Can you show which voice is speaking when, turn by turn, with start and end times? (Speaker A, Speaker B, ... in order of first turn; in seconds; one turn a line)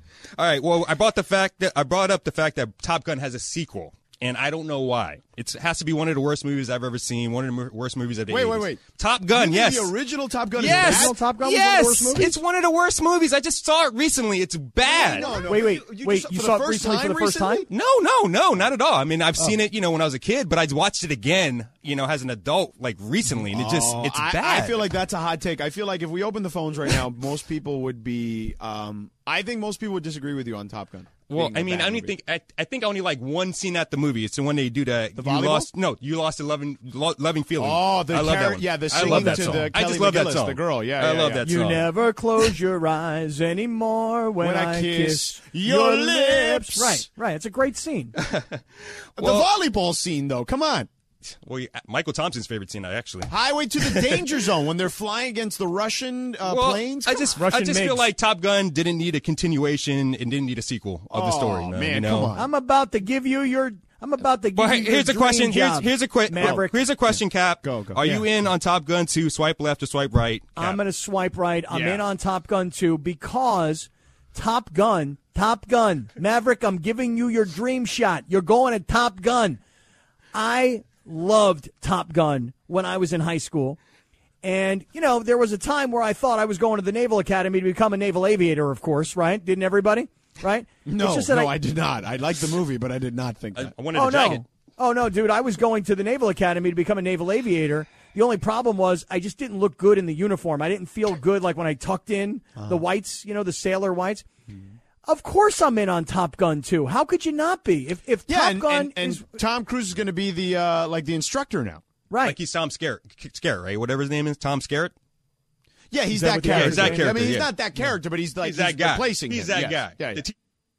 Speaker A: 0.4-9.9
Speaker B: 8.3-11.2
Speaker A: 10.6-15.4
Speaker C: 10.6-12.4
Speaker B: 14.8-17.7
Speaker C: 15.3-17.6
Speaker A: 17.7-24.9
Speaker B: 23.4-32.1
Speaker A: 31.3-41.9
Speaker B: 35.1-35.7
Speaker B: 37.6-41.5
Speaker C: 39.0-39.7
Speaker C: 41.4-48.1
Speaker B: 44.4-47.0
Speaker A: 48.2-48.6
Speaker A: 49.2-49.5
Speaker B: 49.2-50.9
Speaker A: 51.3-54.4
Speaker B: 53.3-57.4
Speaker A: 56.4-62.3
Speaker C: 57.4-58.1
Speaker B: 61.1-62.5
Speaker C: 62.3-66.8
Speaker A: 64.5-70.8
Speaker B: 66.4-68.3
Speaker C: 70.5-79.6
Speaker B: 71.7-72.0
Speaker C: 80.3-83.8
Speaker C: 84.4-91.6
Speaker B: 90.8-93.8
Speaker A: 93.5-94.4
Speaker C: 93.9-104.3
Speaker B: 102.6-102.8
Speaker C: 105.0-109.4
Speaker B: 108.3-111.8
Speaker C: 112.1-112.4
Speaker A: 112.2-114.9
Speaker B: 115.9-120.2
Speaker C: 116.1-117.2
Speaker A: 116.4-117.5
Speaker A: 118.4-120.3